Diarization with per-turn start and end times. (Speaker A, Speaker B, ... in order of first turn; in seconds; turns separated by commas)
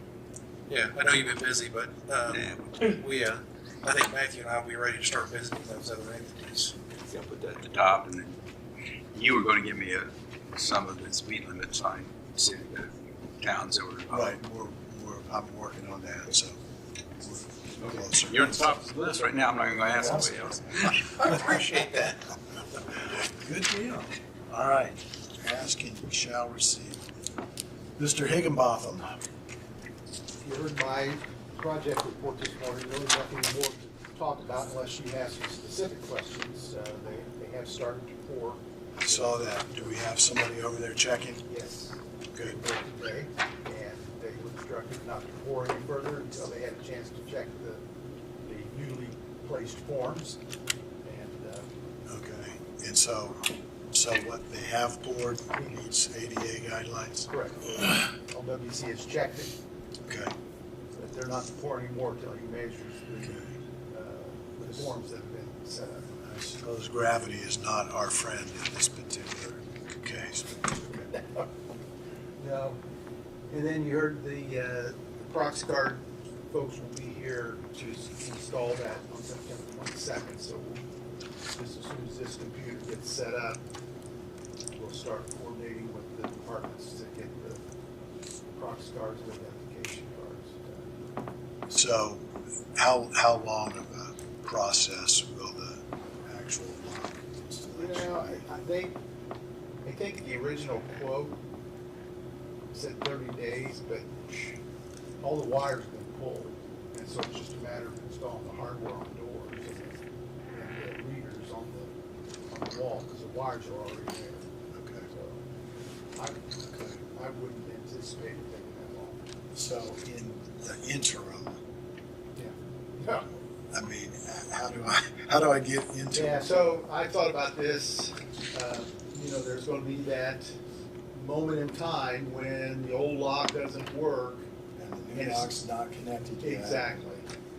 Speaker A: 0.7-6.8, Speaker B: 2.3-2.7, Speaker B: 7.1-8.4, Speaker B: 9.1-14.4, Speaker C: 14.1-16.6, Speaker C: 17.2-18.8, Speaker B: 18.0-22.1, Speaker B: 23.4-24.1, Speaker C: 24.5-27.0, Speaker C: 28.0-29.2, Speaker D: 30.4-38.6, Speaker C: 39.0-41.5, Speaker D: 41.5-47.8, Speaker D: 48.4-50.4, Speaker D: 51.0-51.7, Speaker C: 52.1-57.3, Speaker D: 57.3-59.5, Speaker C: 60.1-60.3, Speaker D: 61.0-66.1, Speaker C: 63.2-63.5, Speaker C: 64.6-64.9, Speaker C: 66.2-71.1, Speaker D: 71.1-71.5, Speaker D: 72.4-72.8, Speaker D: 73.5-80.8, Speaker D: 81.5-83.6, Speaker D: 84.7-87.6, Speaker D: 88.5-90.9, Speaker C: 91.7-98.5, Speaker D: 97.8-99.0, Speaker D: 99.8-101.4, Speaker D: 102.7-104.6, Speaker D: 105.2-110.0, Speaker D: 110.5-111.9, Speaker D: 112.5-114.5, Speaker C: 114.7-115.1, Speaker D: 115.1-115.4, Speaker D: 116.2-119.2, Speaker C: 116.7-117.0, Speaker C: 119.5-121.6, Speaker D: 122.4-123.3, Speaker C: 123.7-126.5, Speaker D: 126.1-130.6, Speaker D: 131.1-134.5, Speaker C: 134.8-136.9, Speaker D: 135.1-135.5, Speaker D: 136.4-137.3